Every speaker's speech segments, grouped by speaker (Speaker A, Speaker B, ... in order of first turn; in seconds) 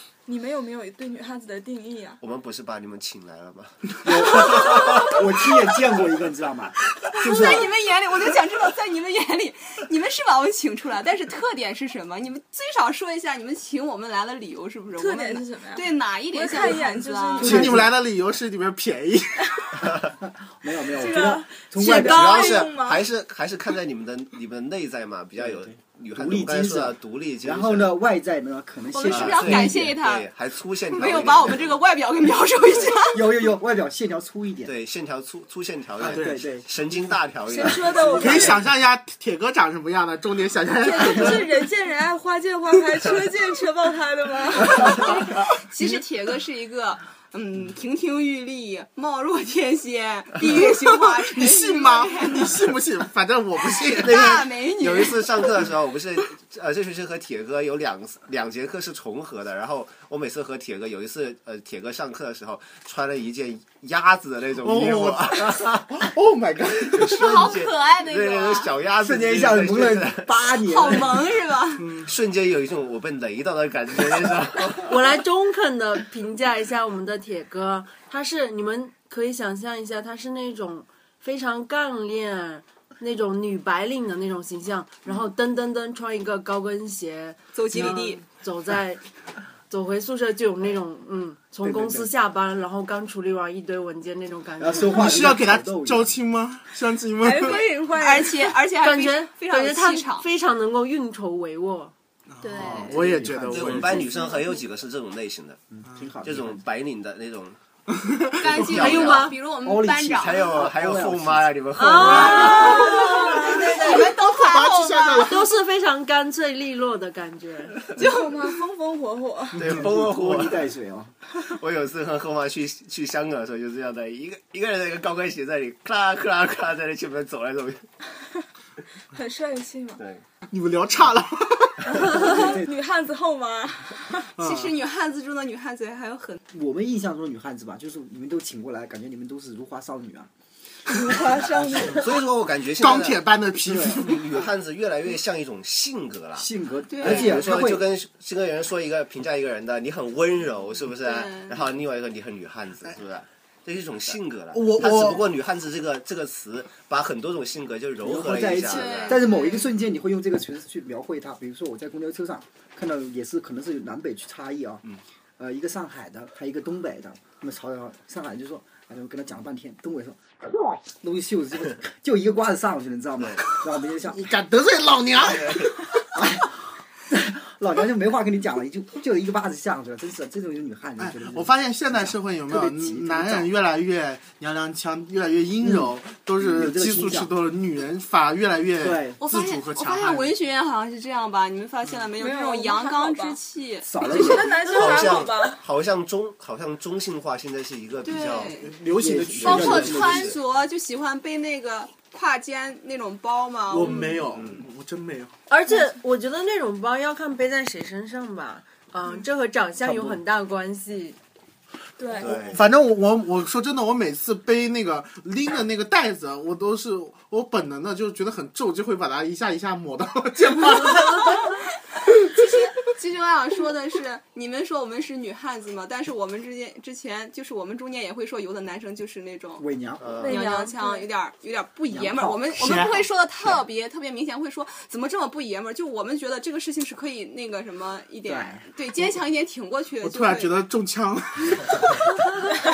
Speaker A: 0.2-2.2, 15.0-17.9, 20.9-23.1, 37.5-38.6, 40.8-45.3, 97.2-98.5, 112.5-113.7, 117.9-119.6, 129.1-130.0, 131.9-134.3, 140.9-142.0, 192.2-193.4, 194.0-195.6, 212.0-212.6, 230.2-231.1
Speaker B: 2.2-5.2, 21.8-27.9, 29.1-31.8, 34.6-38.5, 54.0-66.0, 66.9-70.3, 72.0-75.2, 103.5-105.6, 106.2-107.6, 108.4-109.3, 110.2-113.0, 119.5-120.6, 121.4-127.8, 130.0-130.2, 141.9-143.2, 143.9-146.5, 147.0-159.2, 173.2-173.4, 175.2-175.9, 194.4-198.7, 199.3-200.4, 204.3-204.6, 212.2-212.6, 230.0-230.4
Speaker C: 4.0-7.7, 17.4-17.9, 20.0-22.4, 25.4-29.9, 33.0-34.7, 36.0-36.6, 38.0-38.5, 69.0-71.2, 91.6-92.1, 94.6-96.1, 102.6-104.3, 105.7-106.6, 109.6-111.6, 119.6-121.1, 132.0-132.7, 136.5-140.3, 143.6-144.1, 146.3-147.9, 158.0-164.8, 165.4-174.2, 176.1-183.5, 185.6-187.3, 188.8-189.2, 193.8-194.6, 198.9-200.4, 229.6-230.2, 231.9-232.4, 238.2-238.7
Speaker D: 4.5-5.2, 7.0-17.5, 28.9-30.3, 30.9-33.2, 44.8-52.7, 53.7-55.7, 67.0-68.7, 70.6-71.9, 87.5-88.2, 97.4-100.2, 102.4-102.9, 108.4-110.7, 112.0-115.3, 118.0-118.3, 134.4-136.4, 146.9-147.6, 151.0-151.7, 158.6-159.7, 189.2-194.8, 198.0-198.7, 199.4-204.1, 221.0-221.6, 222.3-229.6, 230.2-240.5
Speaker E: 17.4-19.9, 36.0-36.4, 38.2-41.5, 50.6-54.3, 64.6-67.4, 71.8-72.1, 94.9-97.6, 102.3-104.0, 107.9-108.7, 113.7-115.5, 130.5-132.3, 134.4-134.8, 142.8-144.3, 154.5-155.3, 174.1-175.9, 181.0-190.3, 198.6-200.0, 203.7-205.3, 212.4-221.6, 232.6-233.0, 240.0-242.5
Speaker F: 74.8-89.0, 89.7-95.0, 98.7-101.9, 108.6-109.4, 111.8-114.2, 115.2-117.8, 205.5-211.2